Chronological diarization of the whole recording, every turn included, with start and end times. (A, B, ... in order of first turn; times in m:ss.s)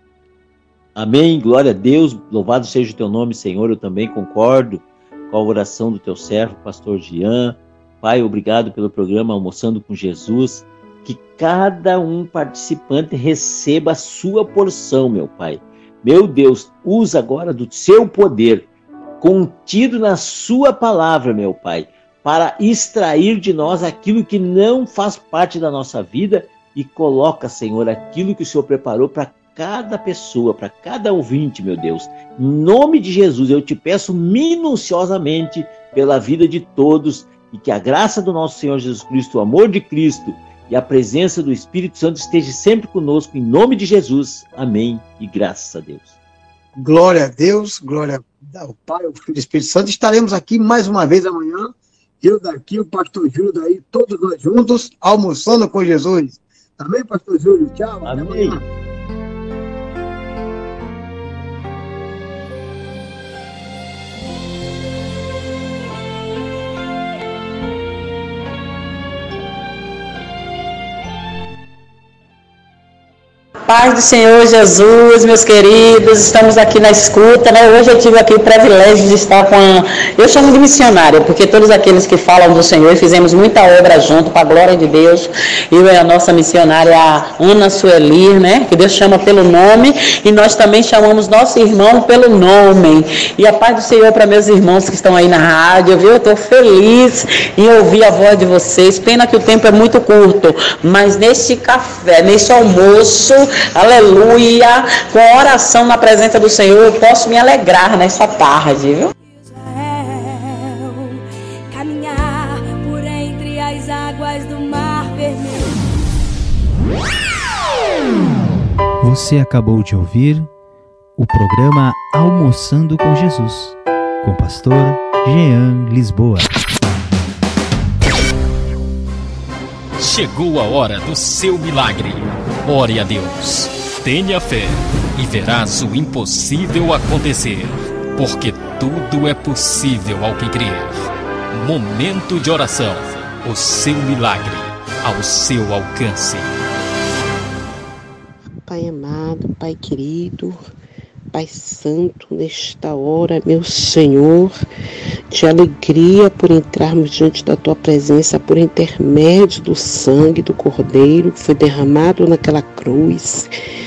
0:01.0-0:18.7 A
0:19.2-0:46.2 A
0:46.8-0:58.6 B
0:58.0-0:58.6 A
1:13.7-1:49.1 C
1:49.2-1:55.8 D
1:59.0-2:00.5 E
2:01.2-2:06.5 E
2:10.0-2:26.6 F
2:28.7-2:30.6 G
2:31.3-2:34.5 G
2:35.3-2:43.5 G